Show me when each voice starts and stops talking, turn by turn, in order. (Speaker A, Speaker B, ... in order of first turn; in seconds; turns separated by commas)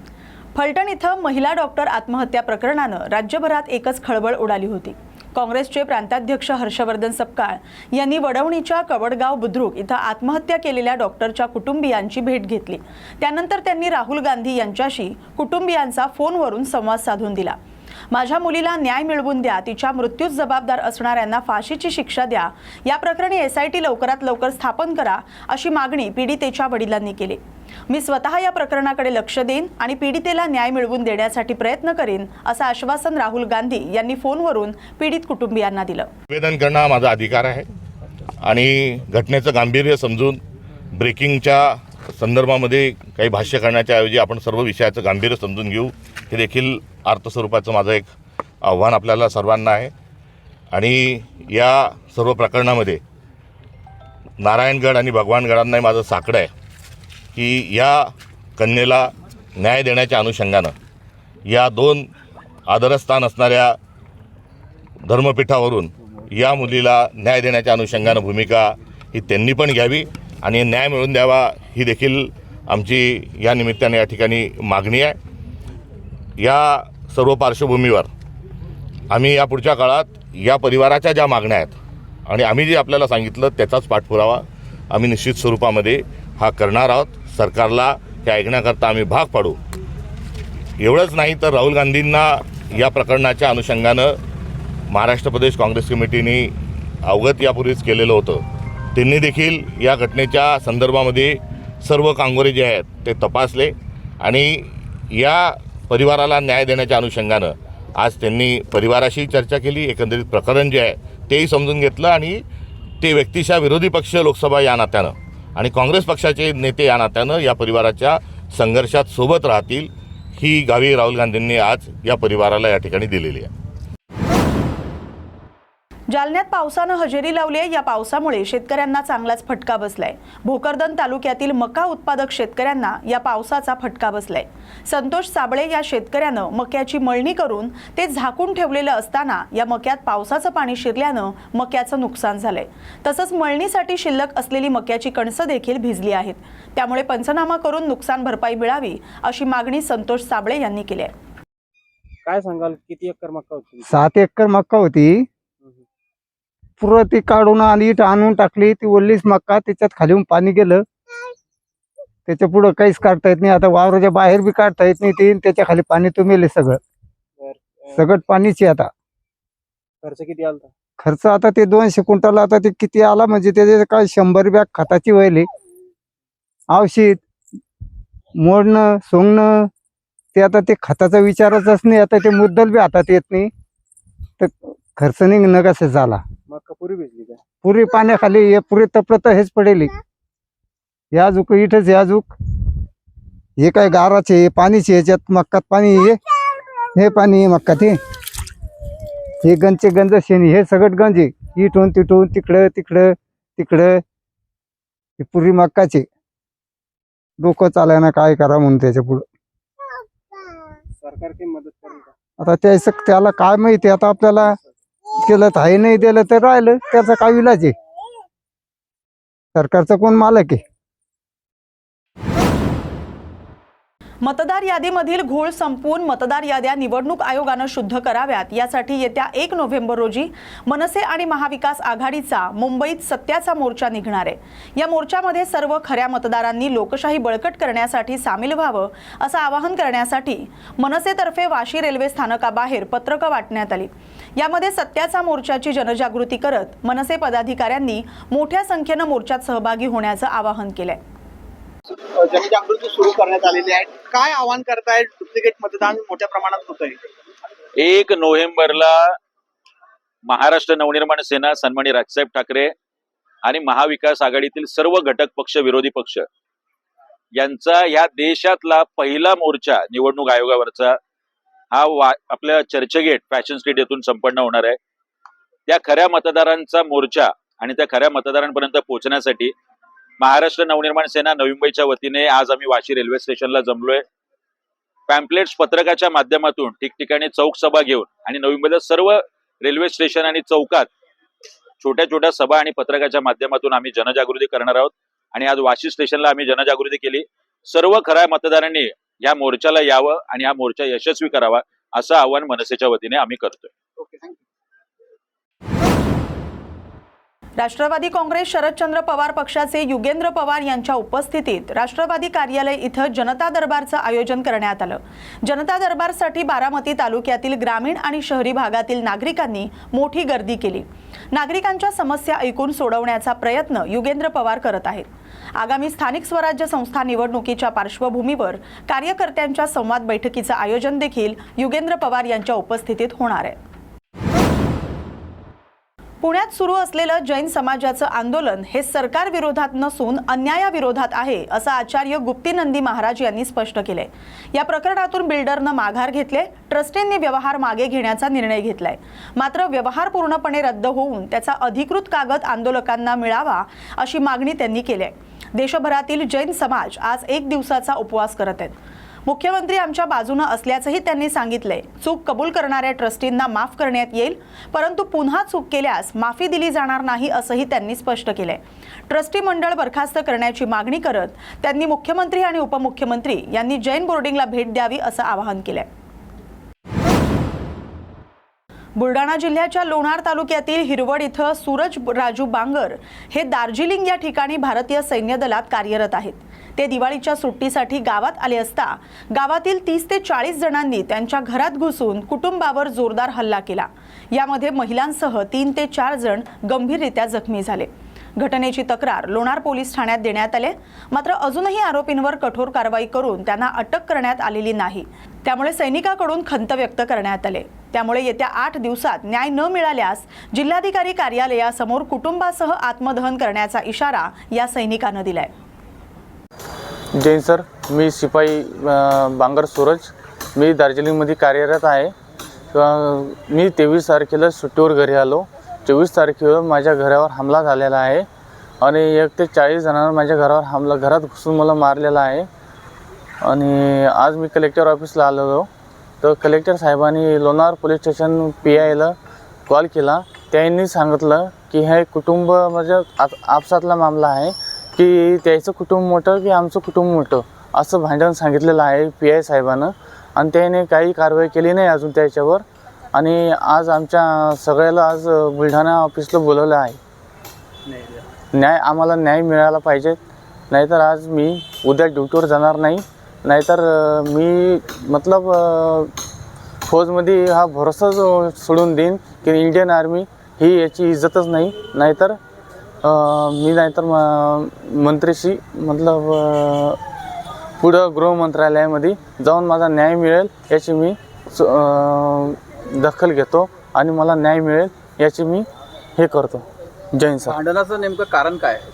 Speaker A: 0.5-17.6, Speaker A: 18.1-36.1, Speaker B: 36.3-37.6, Speaker B: 38.4-40.4, Speaker B: 40.9-41.7, Speaker B: 42.2-48.1, Speaker B: 48.6-49.9, Speaker B: 50.7-53.0, Speaker B: 54.4-56.5, Speaker B: 57.3-58.0, Speaker B: 58.6-59.1, Speaker B: 59.6-60.7, Speaker B: 61.5-62.0, Speaker B: 62.7-63.7, Speaker B: 65.1-75.2, Speaker B: 76.4-78.1, Speaker B: 79.1-81.7, Speaker B: 82.3-89.5, Speaker B: 90.8-94.1, Speaker B: 94.9-96.5, Speaker B: 97.0-98.4, Speaker B: 98.9-104.5, Speaker B: 105.1-112.4, Speaker B: 113.0-123.5, Speaker A: 126.1-151.1, Speaker C: 152.2-154.0, Speaker D: 153.8-155.2, Speaker D: 156.8-160.8, Speaker D: 162.3-166.8, Speaker C: 167.4-168.0, Speaker D: 167.9-168.9, Speaker C: 170.0-170.7, Speaker D: 171.0-175.4, Speaker D: 176.7-177.2, Speaker D: 178.4-179.7, Speaker D: 180.3-183.5, Speaker D: 184.4-186.2, Speaker C: 186.5-187.4, Speaker D: 187.6-189.9, Speaker D: 191.1-192.3, Speaker D: 193.6-196.2, Speaker D: 196.9-197.9, Speaker D: 199.4-204.0, Speaker D: 205.2-206.1, Speaker D: 207.4-209.2, Speaker C: 211.0-212.1, Speaker D: 212.4-214.5, Speaker C: 214.4-214.7, Speaker D: 215.2-217.7, Speaker D: 219.5-220.6, Speaker A: 224.2-251.0, Speaker E: 252.2-257.0, Speaker F: 257.8-259.0, Speaker F: 260.3-262.7, Speaker F: 263.4-266.2, Speaker F: 267.4-270.9, Speaker F: 271.7-274.8, Speaker F: 275.7-279.5, Speaker F: 280.2-284.0, Speaker F: 285.1-290.9, Speaker F: 291.8-303.7, Speaker E: 304.0-304.3, Speaker A: 307.6-333.6, Speaker A: 336.2-358.7, Speaker A: 359.2-375.9, Speaker A: 378.9-415.5, Speaker G: 417.2-422.1, Speaker G: 422.7-428.2, Speaker G: 428.8-432.5, Speaker G: 433.4-435.7, Speaker G: 436.2-439.1, Speaker G: 439.7-457.0, Speaker G: 458.5-460.2, Speaker G: 460.7-466.1, Speaker G: 466.9-472.4, Speaker G: 473.0-477.0, Speaker G: 477.8-485.6, Speaker G: 486.2-487.6